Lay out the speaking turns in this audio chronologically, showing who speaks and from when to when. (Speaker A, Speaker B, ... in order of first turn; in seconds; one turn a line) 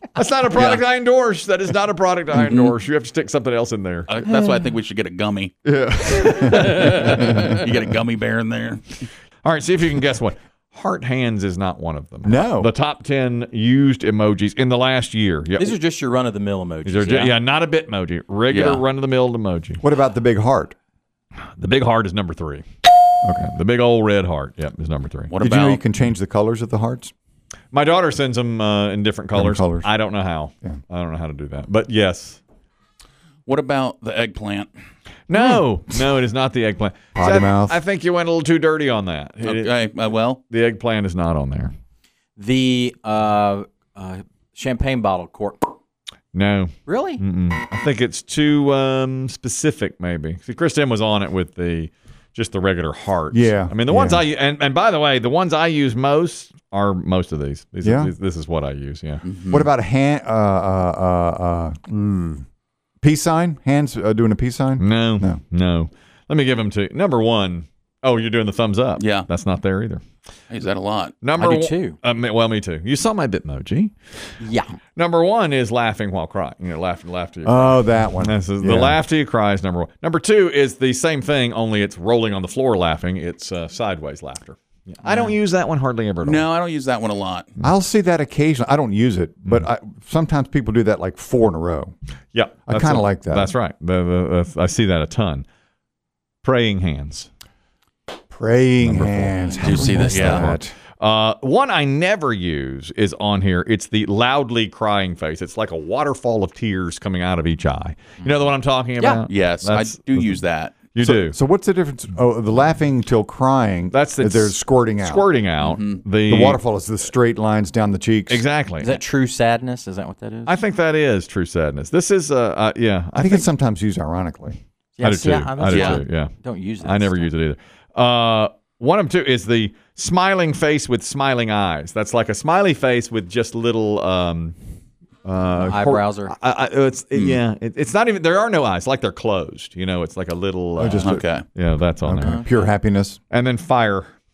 Speaker A: 0.1-4.1
Speaker B: 0.6-0.8
Speaker B: 2.3-2.7
Speaker B: 4.1-5.5
Speaker C: 5.6-7.5
Speaker B: 6.2-9.0
Speaker A: 6.8-7.3
Speaker A: 9.4-15.8
Speaker C: 12.2-12.7
Speaker D: 15.6-17.3
Speaker A: 16.8-19.8
Speaker B: 18.5-18.8
Speaker C: 19.8-20.8
Speaker A: 21.5-22.6
Speaker C: 23.2-23.5
Speaker A: 23.3-25.4
Speaker B: 25.3-25.8
Speaker C: 25.4-27.1
Speaker A: 27.7-32.4
Speaker C: 29.3-29.9
Speaker B: 33.5-34.7
Speaker A: 35.3-39.8
Speaker C: 35.3-35.6
Speaker C: 37.1-37.8
Speaker B: 39.4-40.4
Speaker A: 40.5-41.7
Speaker D: 42.4-45.7
Speaker A: 46.3-59.2
Speaker D: 46.9-47.2
Speaker C: 53.3-54.2
Speaker C: 57.8-58.1
Speaker B: 59.2-59.7
Speaker C: 59.5-62.4
Speaker C: 63.0-65.4
Speaker A: 64.8-70.0
Speaker B: 69.0-69.3
Speaker B: 70.5-71.1
Speaker A: 71.2-73.9
Speaker D: 71.3-72.0
Speaker D: 74.4-74.8
Speaker A: 75.0-86.5
Speaker C: 77.4-79.0
Speaker B: 85.0-85.3
Speaker B: 86.2-87.5
Speaker C: 87.6-91.9
Speaker A: 92.3-95.5
Speaker C: 92.7-93.5
Speaker A: 96.4-97.3
Speaker C: 98.3-100.7
Speaker A: 98.8-111.3
Speaker B: 99.6-100.5
Speaker B: 109.3-110.8
Speaker C: 111.0-115.3
Speaker A: 113.9-116.6
Speaker B: 115.6-116.0
Speaker C: 116.3-118.4
Speaker A: 118.3-119.0
Speaker D: 118.8-120.6
Speaker A: 120.5-123.5
Speaker C: 123.1-124.6
Speaker D: 125.0-127.3
Speaker A: 125.0-134.6
Speaker B: 125.7-126.0
Speaker A: 135.2-142.7
Speaker D: 135.6-136.3
Speaker B: 137.1-137.4
Speaker C: 140.8-141.2
Speaker B: 141.0-141.4
Speaker C: 142.0-143.2
Speaker D: 142.2-142.4
Speaker A: 143.3-144.1